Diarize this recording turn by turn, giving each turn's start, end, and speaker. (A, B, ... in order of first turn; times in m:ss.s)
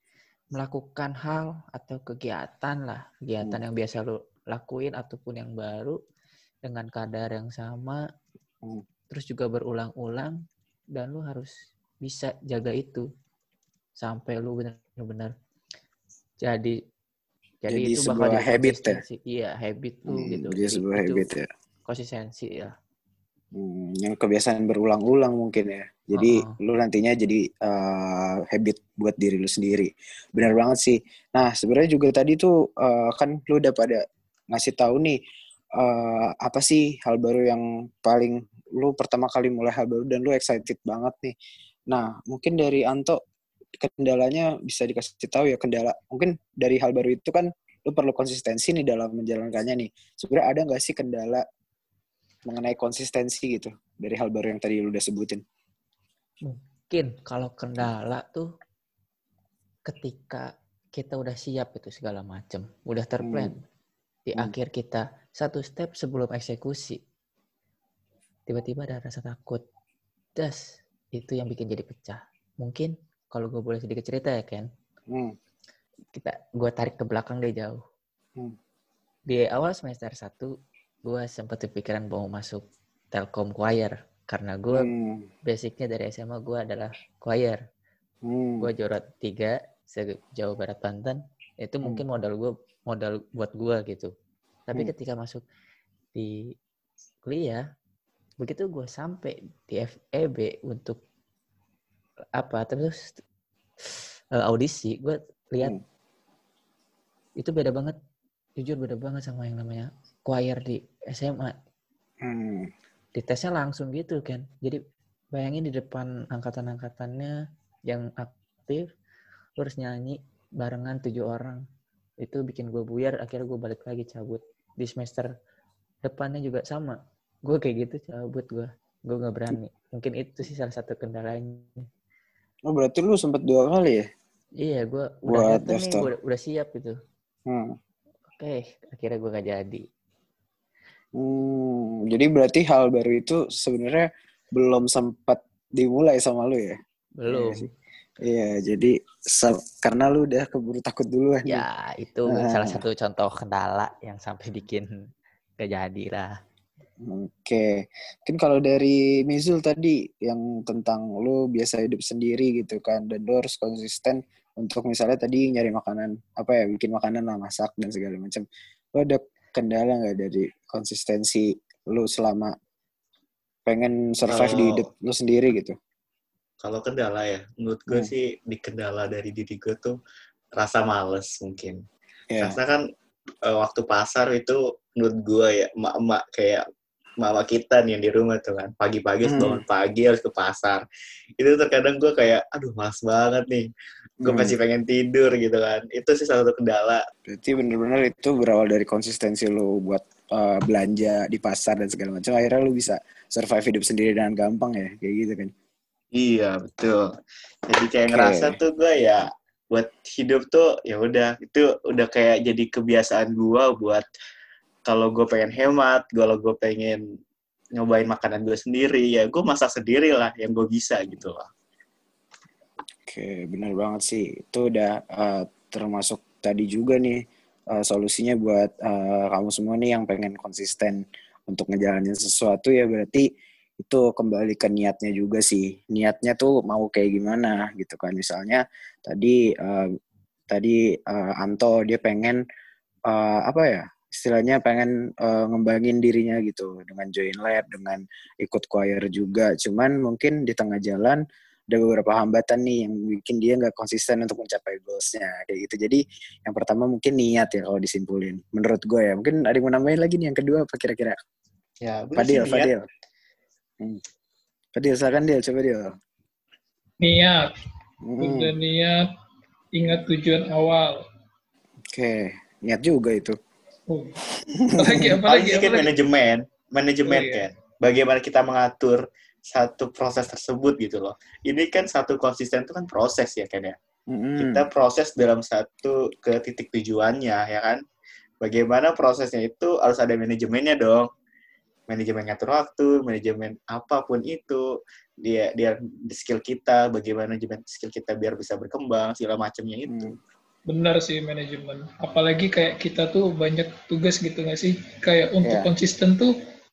0:00.5-0:06.0 A
0:06.6-0:08.0 A
0:09.1-0:10.4 A
0:10.9-0:11.5 A
0:12.0-0:13.0 A
0:14.0-0:15.3 A
0:16.4-0:16.8 A
0:17.6-0:21.2 A
0:17.7-0:19.0 B
0:20.1-0:21.5 B
0:21.8-0:22.7 A
0:23.5-0:35.2 B
0:26.2-0:26.5 A
0:35.8-0:41.3 B
0:41.9-0:43.2 B
0:43.8-0:51.4 B
0:52.5-0:55.4 B
0:56.4-0:58.5 A
0:59.9-1:03.6 A
1:03.2-1:03.5 B
1:04.3-1:07.0 A
1:08.5-1:09.6 A
1:10.4-1:10.6 A
1:11.1-1:14.7 A
1:16.1-1:17.8 A
1:19.3-1:20.5 A
1:21.0-1:24.9 A
1:24.7-1:25.3 B
1:25.4-1:27.6 A
1:28.2-1:28.7 B
1:28.6-1:34.1 A
1:34.7-1:35.4 A
1:37.2-1:37.6 A
1:38.4-1:41.0 A
1:42.4-1:43.1 A
1:44.3-1:45.7 A
1:47.4-1:48.0 A
1:48.6-1:51.5 A
1:52.2-1:52.7 B
1:53.1-1:54.8 A
1:55.3-1:57.3 A
1:57.9-1:58.9 A
1:59.6-2:01.6 A
2:02.2-2:05.3 A
2:06.0-2:11.8 A
2:12.7-2:14.0 B
2:14.6-2:16.9 A
2:15.3-2:16.1 B
2:17.5-2:17.8 B
2:18.4-2:19.8 A
2:21.1-2:26.8 B
2:27.2-2:27.7 A
2:27.3-2:27.7 B
2:28.2-2:31.6 B
2:31.5-2:34.9 A
2:32.3-2:32.8 B
2:35.6-2:36.3 A
2:37.0-2:48.4 B
2:48.9-2:52.5 B
2:53.6-2:55.7 B
2:54.3-2:54.9 C
2:56.6-3:00.0 C
3:00.6-3:01.8 C
3:02.3-3:02.6 B
3:02.4-3:02.8 C
3:03.4-3:06.6 C
3:07.2-3:10.8 C
3:09.3-3:09.6 B
3:11.4-3:13.7 C
3:14.2-3:17.0 C
3:14.2-3:14.5 B
3:17.3-3:25.5 B
3:26.1-3:27.1 C
3:27.7-3:34.0 C
3:28.1-3:28.6 B
3:34.8-3:37.0 C
3:37.7-3:41.5 C
3:43.1-3:53.3 B
3:53.8-3:59.9 B
4:00.5-4:02.4 B
4:03.1-4:21.2 B
4:21.8-4:22.7 C
4:22.2-4:22.8 B
4:24.7-4:25.9 B
4:27.0-4:27.4 D
4:28.0-4:28.5 B
4:28.2-4:29.1 D
4:29.7-4:31.0 D
4:31.9-4:33.4 B
4:33.9-4:34.2 D
4:34.4-4:35.2 B
4:34.8-4:35.9 D
4:35.3-4:43.8 C
4:37.1-4:37.4 D
4:44.1-4:44.6 B
4:44.4-4:47.8 C
4:48.4-4:51.1 C
4:51.9-5:00.2 C
4:59.9-5:00.2 B
5:00.7-5:06.3 D
5:05.4-5:05.7 B